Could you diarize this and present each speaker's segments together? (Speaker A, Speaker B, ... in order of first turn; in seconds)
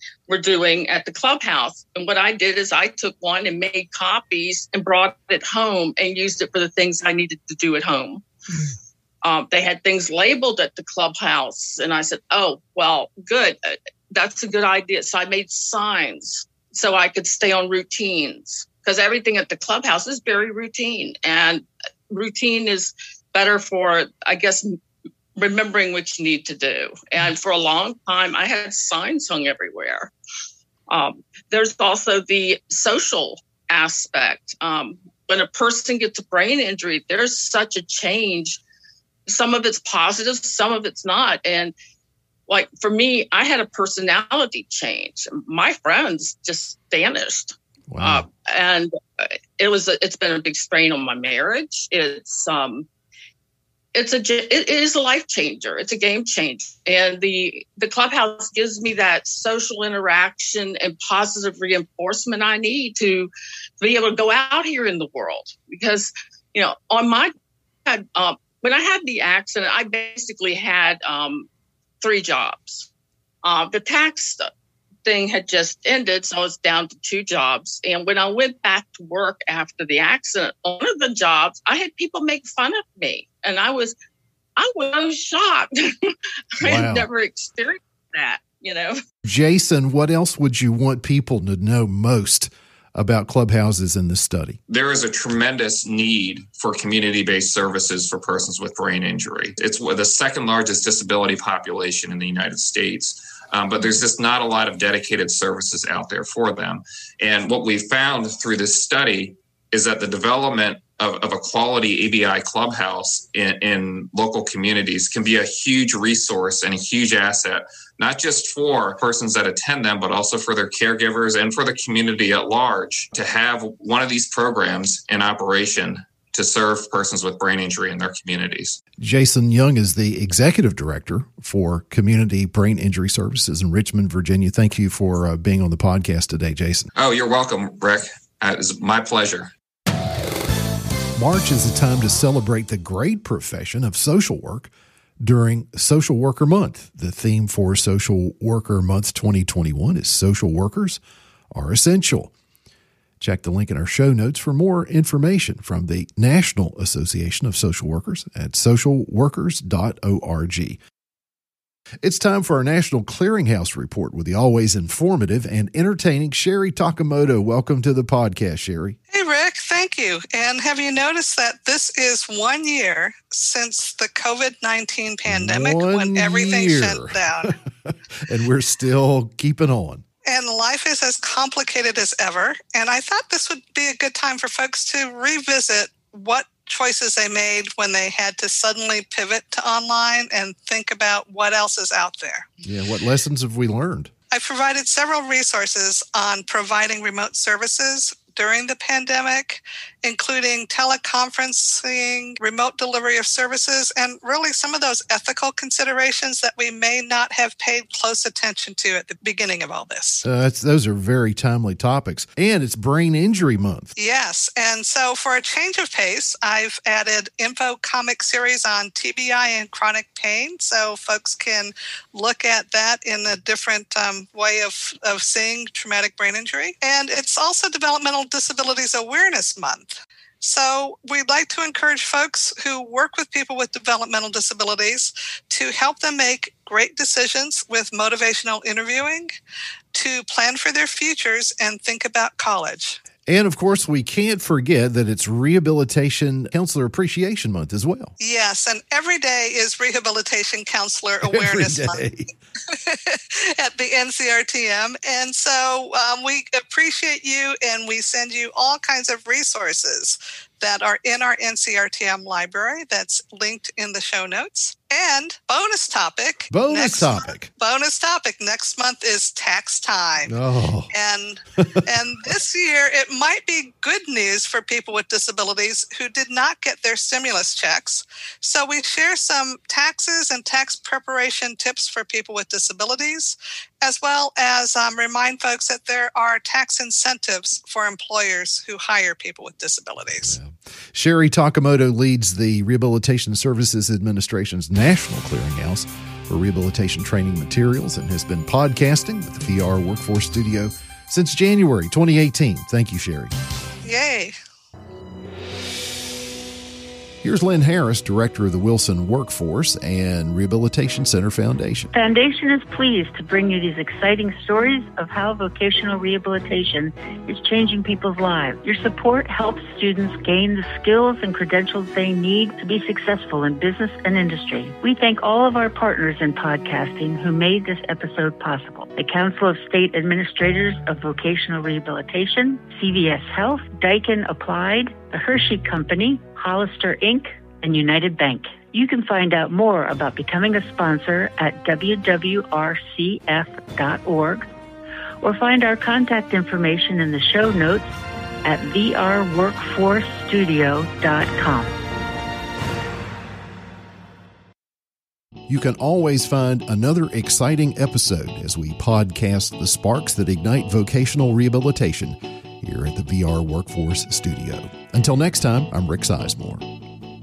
Speaker A: 0.3-8.2, 9.2-24.8, 25.4-30.1, 30.9-38.6, 39.3-41.7, 42.5-52.9, 53.9-67.3, 67.8-71.5, 72.0-72.9, 73.4-74.5, 75.0-83.9, 84.6-89.0
Speaker B: 47.9-48.2, 86.6-87.1, 89.2-94.6, 129.0-136.9, 141.2-151.0, 151.5-152.3, 153.2-160.8, 162.0-169.0, 175.2-177.3, 178.2-180.0, 192.6-194.1, 210.2-213.9, 243.2-248.1, 251.2-252.3, 266.5-267.5, 270.2-270.9, 290.2-303.3, 307.2-311.9, 355.5-366.6
Speaker C: 94.7-128.8, 136.9-139.5
Speaker D: 169.1-177.5, 180.2-192.5, 194.3-210.2, 213.9-239.3, 239.9-243.0, 248.2-252.0, 252.7-270.3, 270.9-290.4, 303.8-304.3
Speaker E: 311.9-344.4, 345.2-351.7